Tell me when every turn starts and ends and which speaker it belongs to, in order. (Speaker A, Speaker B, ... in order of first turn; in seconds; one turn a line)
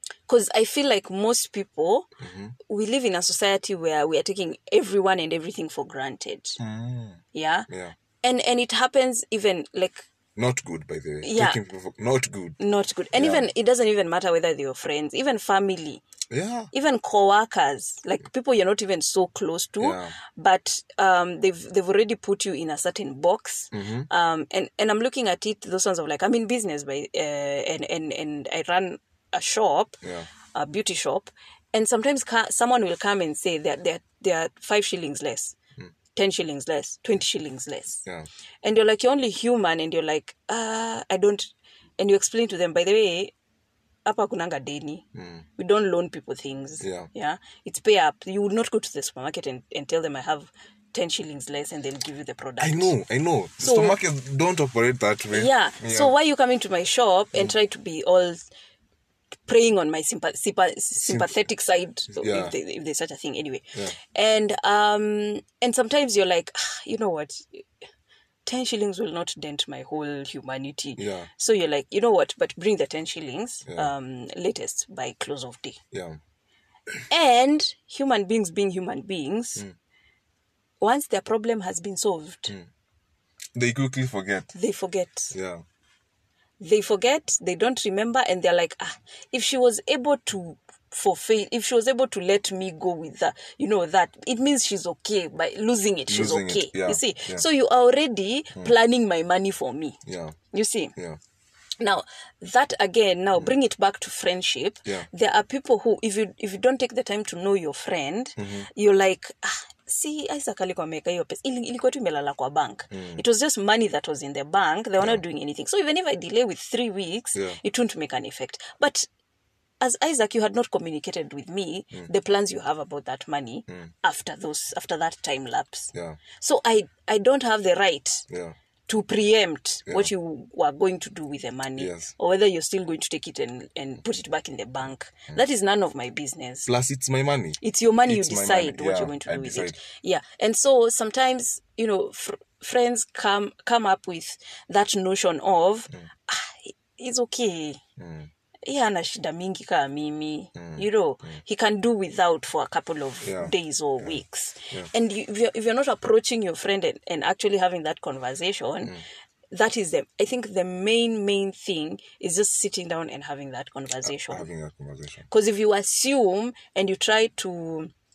Speaker A: 0.3-2.1
Speaker B: 2.2-2.5
Speaker A: 2.7-6.6
Speaker B: 6.6-7.9
Speaker A: 7.3-7.7
Speaker A: 8.2-10.1
Speaker B: 10.4-12.6
Speaker A: 11.2-11.6
Speaker A: 12.6-16.0
Speaker B: 13.1-13.5
Speaker B: 16.3-16.7
Speaker A: 16.7-30.0
Speaker B: 19.8-20.1
Speaker B: 23.7-24.1
Speaker B: 30.0-30.3
Speaker A: 30.5-35.6
Speaker A: 36.1-38.1
Speaker A: 38.6-43.3
Speaker A: 44.0-45.0
Speaker B: 45.1-45.4
Speaker A: 45.6-52.9
Speaker B: 46.8-47.1
Speaker B: 52.6-56.1
Speaker A: 53.6-54.0
Speaker A: 55.3-58.5
Speaker A: 59.5-67.6
Speaker B: 61.0-61.3
Speaker B: 62.1-62.5
Speaker A: 68.5-75.8
Speaker B: 71.0-71.3
Speaker B: 75.9-76.2
Speaker A: 77.1-79.6
Speaker A: 80.8-82.5
Speaker B: 83.5-84.5
Speaker A: 84.5-85.3
Speaker B: 85.3-85.6
Speaker A: 86.6-100.0
Speaker B: 96.1-97.4
Speaker B: 100.1-100.4
Speaker A: 100.5-100.9
Speaker A: 101.8-119.1
Speaker B: 108.4-108.7
Speaker B: 112.9-113.2
Speaker B: 117.3-117.6
Speaker A: 119.8-128.2
Speaker B: 125.9-126.2
Speaker B: 128.3-128.6
Speaker A: 128.9-136.7
Speaker B: 131.8-132.1
Speaker B: 136.7-139.8
Speaker A: 137.6-147.8
Speaker B: 148.0-148.3
Speaker A: 148.7-158.9
Speaker B: 150.6-151.4
Speaker B: 153.2-154.9
Speaker A: 159.5-164.5
Speaker B: 164.0-165.3
Speaker A: 165.3-167.9